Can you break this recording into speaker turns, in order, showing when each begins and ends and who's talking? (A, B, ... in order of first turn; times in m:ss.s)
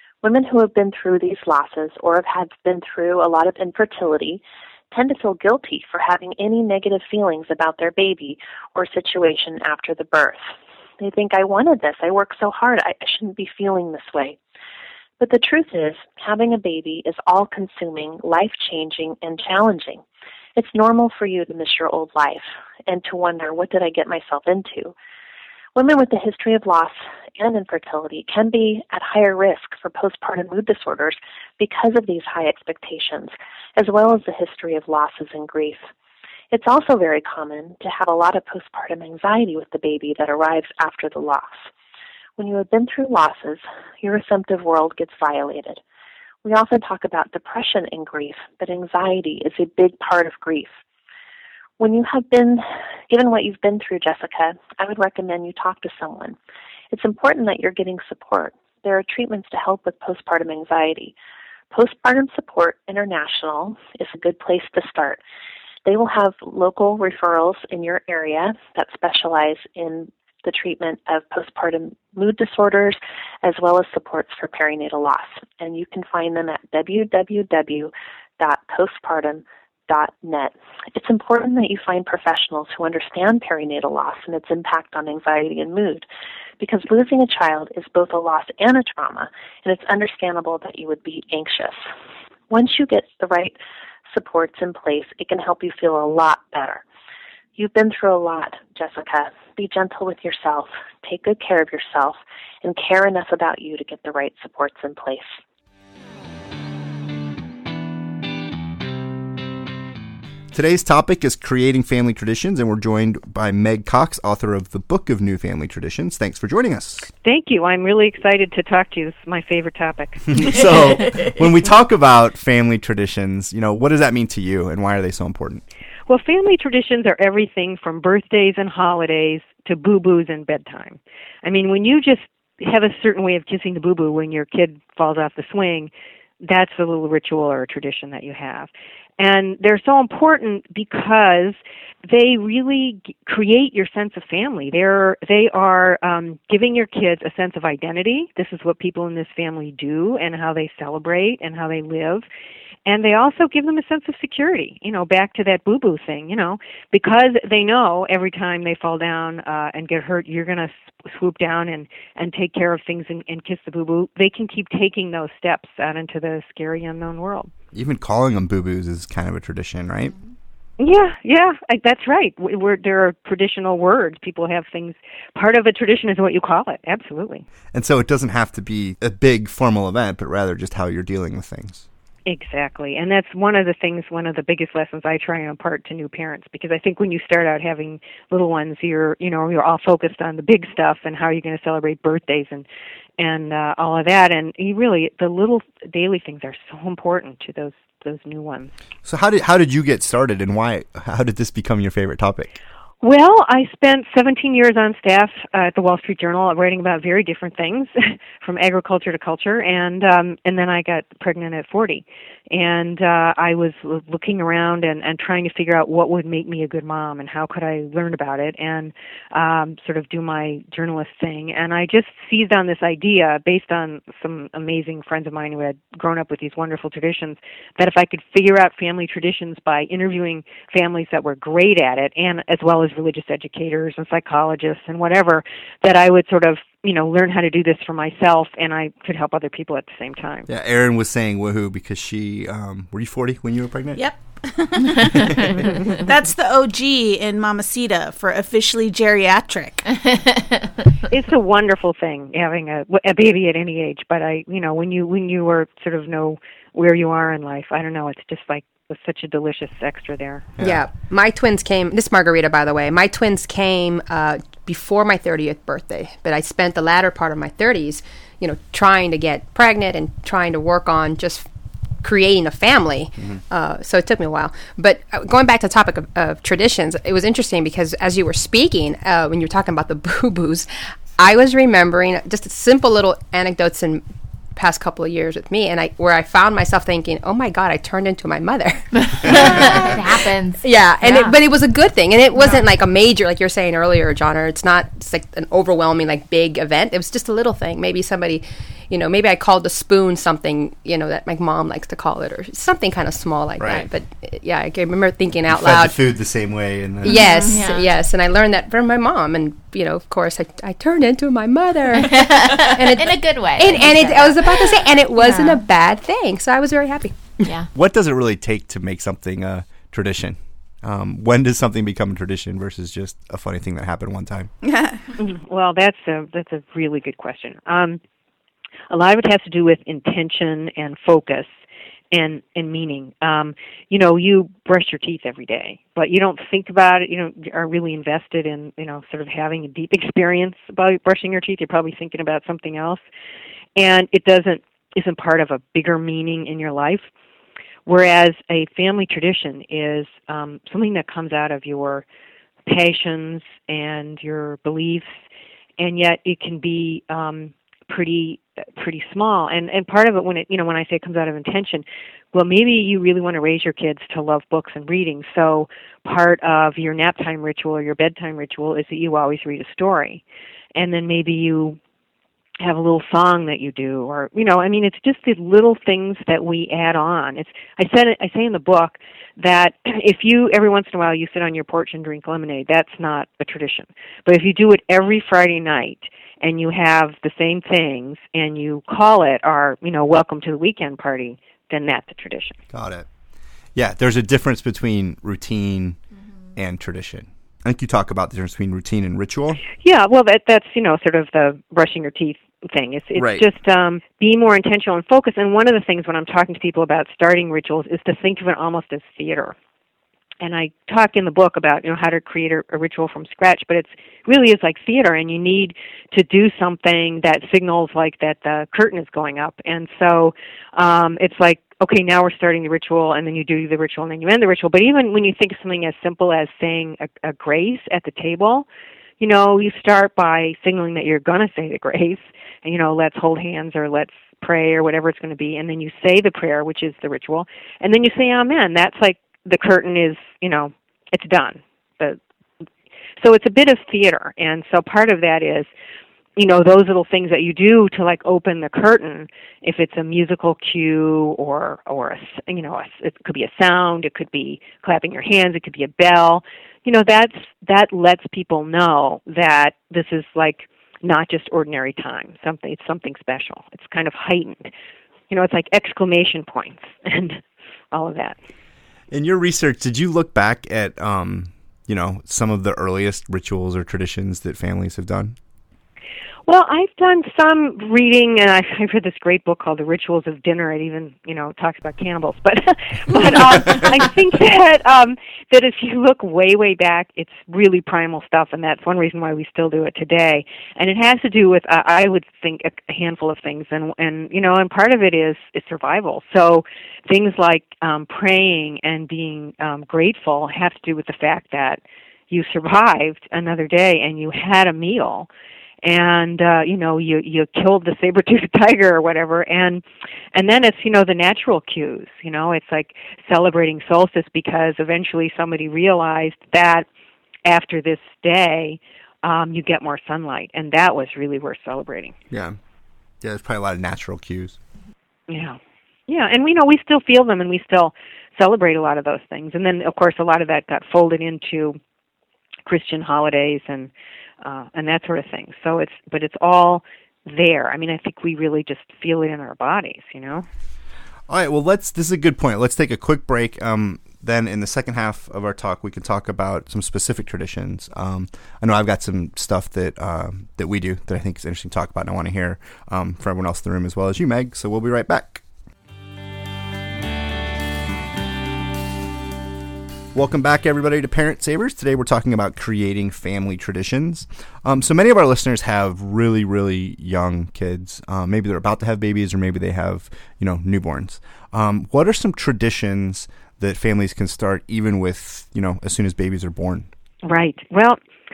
0:00.2-0:10.4 A
0:11.0-0:14.4 A
0:15.2-0:20.0 A
0:20.6-0:25.0 A
0:25.8-0:35.9 A
0:36.5-0:41.7 A
0:42.4-0:45.8 A
0:46.4-0:50.7 A
0:51.8-0:56.4 A
0:56.9-1:01.1 A
1:01.7-1:05.2 A
1:05.8-1:26.1 A
1:26.6-1:31.8 A
1:32.5-1:33.6 A
1:34.1-1:36.8 A
1:37.6-1:45.3 A
1:50.5-1:57.1 B
1:57.2-2:00.6 C
2:00.3-2:05.6 B
2:06.1-2:15.9 C
2:16.4-2:32.2 C
2:32.9-2:47.5 C
2:47.7-2:50.1 B
2:50.8-2:57.5 C
2:57.7-3:01.8 B
3:02.3-3:12.7 C
3:13.2-3:18.7 C
3:19.0-3:22.5 B
3:23.0-4:00.5 C
4:00.5-4:04.1 B
4:04.0-4:09.9 D
4:11.1-4:20.5 C
4:20.6-4:31.5 E
4:32.0-4:44.0 E
4:44.6-4:49.9 E
4:49.0-4:51.4 F
4:49.3-4:49.8 D
4:50.6-5:06.0 E
5:03.6-5:03.9 B
5:05.5-5:07.3 B
5:07.0-5:17.4 E
5:07.1-5:07.6 D
5:07.4-5:07.9 F
5:12.0-5:14.9 F
5:17.4-5:17.7 F
5:17.7-5:24.5 B
5:24.6-5:25.0 D
5:25.2-5:28.0 C
5:28.9-5:31.5 C
5:32.1-5:43.0 C
5:43.8-5:47.1 C
5:47.9-5:52.0 C
5:52.7-5:55.2 C
5:55.8-6:10.2 C
6:10.8-6:11.8 C
6:12.6-6:32.6 C
6:32.7-6:33.1 B
6:33.8-6:36.0 B
6:36.6-6:39.6 B
6:39.8-6:49.6 C
6:43.2-6:43.4 B
6:50.4-7:08.7 C
7:09.2-7:22.2 C
7:23.2-7:25.7 C
7:26.4-7:44.7 C
7:45.3-7:47.4 C
7:47.9-7:48.4 C
7:49.1-7:55.4 B
7:56.5-8:25.3 C
8:03.6-8:03.9 B
8:25.8-8:36.9 C
8:37.4-8:42.2 C
8:42.3-8:42.6 B
8:43.2-8:44.6 B
8:45.3-8:51.8 C
8:52.7-8:53.9 C
8:54.4-9:00.5 C
9:01.3-9:15.4 B
9:20.1-9:36.9 B
9:37.2-9:38.0 C